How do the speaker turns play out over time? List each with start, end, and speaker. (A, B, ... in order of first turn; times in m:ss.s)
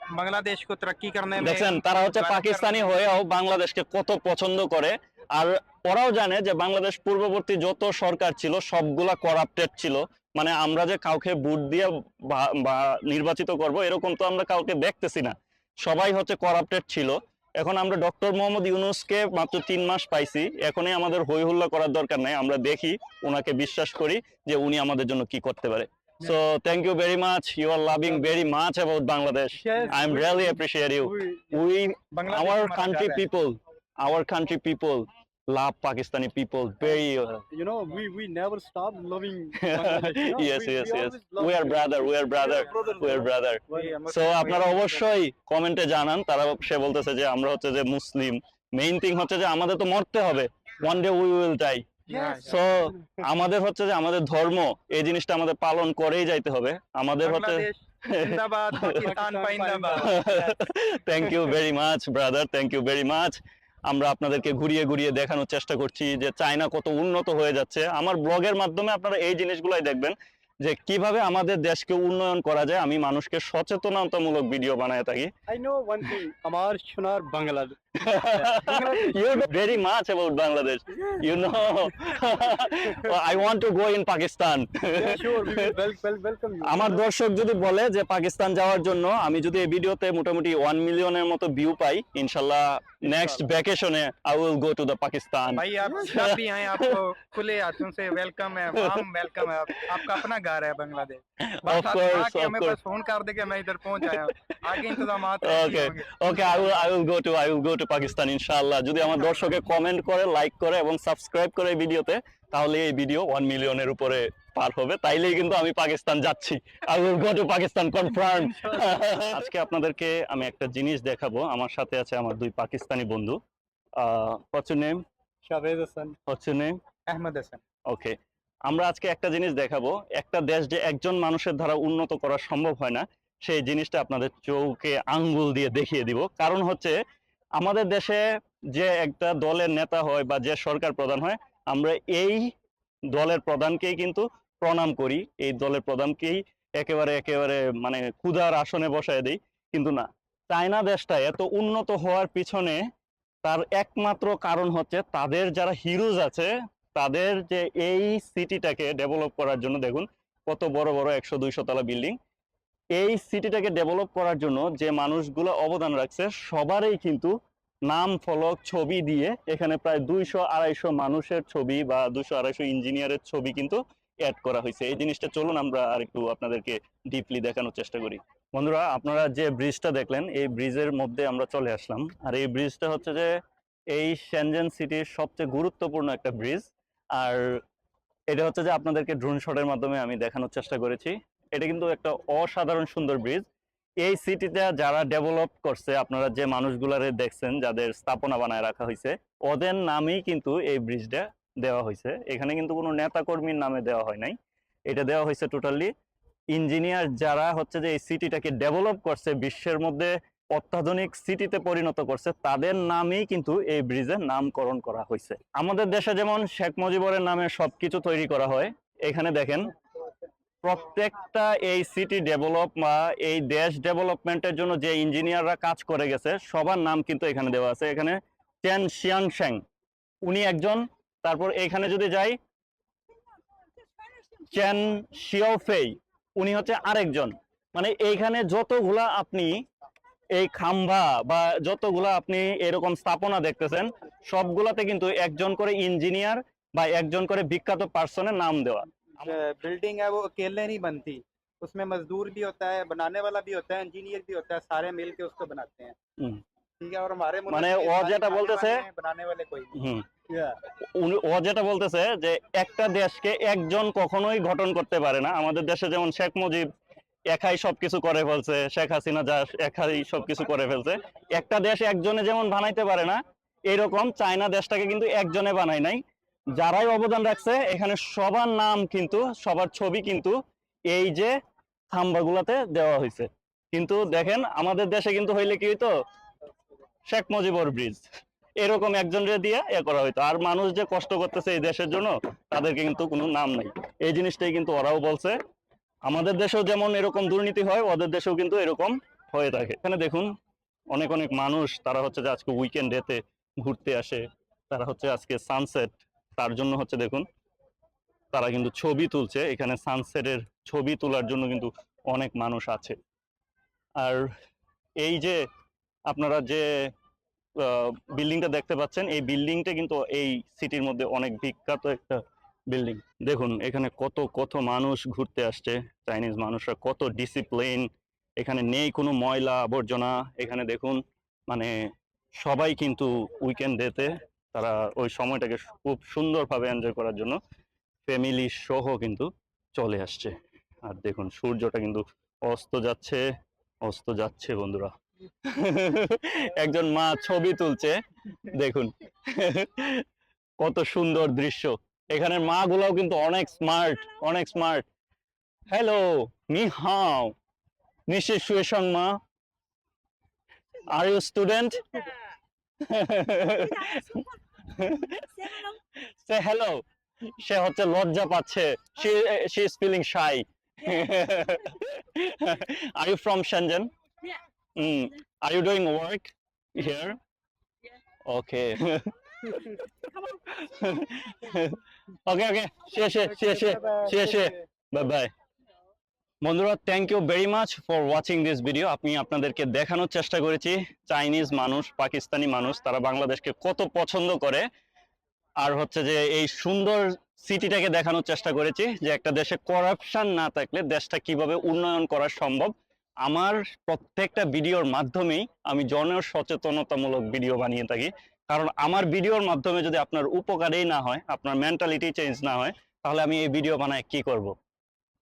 0:00.1-0:03.0 A
0:01.4-0:37.4 B
0:29.6-0:31.6 C
0:32.1-0:33.2 A
0:37.5-0:43.9 C
0:39.6-0:51.9 B
0:42.4-0:45.0 A
0:52.1-0:53.2 C
0:52.1-0:52.6 A
0:52.4-0:59.0 B
0:57.2-1:00.2 A
0:58.8-1:00.6 C
1:00.0-1:03.4 B
1:01.2-1:01.5 C
1:03.9-1:15.3 B
1:15.5-1:17.8 C
1:18.0-1:25.8 B
1:18.3-1:19.4 C
1:22.1-1:23.2 C
1:25.0-1:27.0 C
1:26.6-1:37.0 B
1:33.0-1:33.5 C
1:35.6-1:46.8 A
1:38.8-1:39.0 B
1:39.8-1:40.2 B
1:41.4-1:42.8 B
1:44.7-2:03.4 B
1:58.2-1:59.4 C
2:04.0-2:05.0 B
2:05.4-2:06.2 C
2:06.3-2:06.8 B
2:07.1-2:07.6 A
2:07.9-2:08.2 B
2:08.7-2:17.0 B
2:17.6-2:18.2 B
2:18.7-2:22.5 B
2:23.1-2:32.8 B
2:33.4-2:42.2 B
2:43.0-2:47.3 B
2:47.9-3:03.3 B
3:03.9-3:07.6 B
3:08.3-3:13.5 B
3:14.0-3:24.4 B
3:24.9-3:25.9 B
3:26.5-3:39.7 B
3:40.6-3:49.6 B
3:50.3-3:52.4 B
3:54.4-3:59.5 B
4:00.4-4:08.9 B
4:09.2-4:16.0 A
4:16.8-4:19.7 A
4:17.5-4:18.8 B
4:19.8-4:20.0 B
4:20.3-4:20.6 C
4:20.8-4:26.7 B
4:27.3-4:36.0 B
4:36.5-4:40.4 B
4:40.9-4:41.3 B
4:41.9-4:45.9 B
4:47.1-4:48.0 B
4:48.6-4:55.4 B
4:56.1-5:00.3 B
5:00.9-5:07.3 B
5:08.3-5:13.0 B
5:14.0-5:14.3 B
5:15.0-5:15.4 B
5:16.1-5:16.9 B
5:17.6-5:27.9 B
5:28.4-5:31.8 B
5:32.4-5:37.4 B
5:38.1-5:40.3 B
5:40.8-5:43.2 B
5:43.8-5:44.9 B
5:45.4-5:50.0 B
5:50.6-5:54.8 B
5:55.7-5:57.4 B
5:58.1-5:59.2 B
6:00.8-6:02.0 B
6:02.8-6:06.8 B
6:07.4-6:13.9 B
6:14.8-6:17.2 B
6:18.3-6:25.3 B
6:23.3-6:24.6 A
6:26.4-6:34.6 B
6:35.6-6:42.7 B
6:43.2-6:54.5 B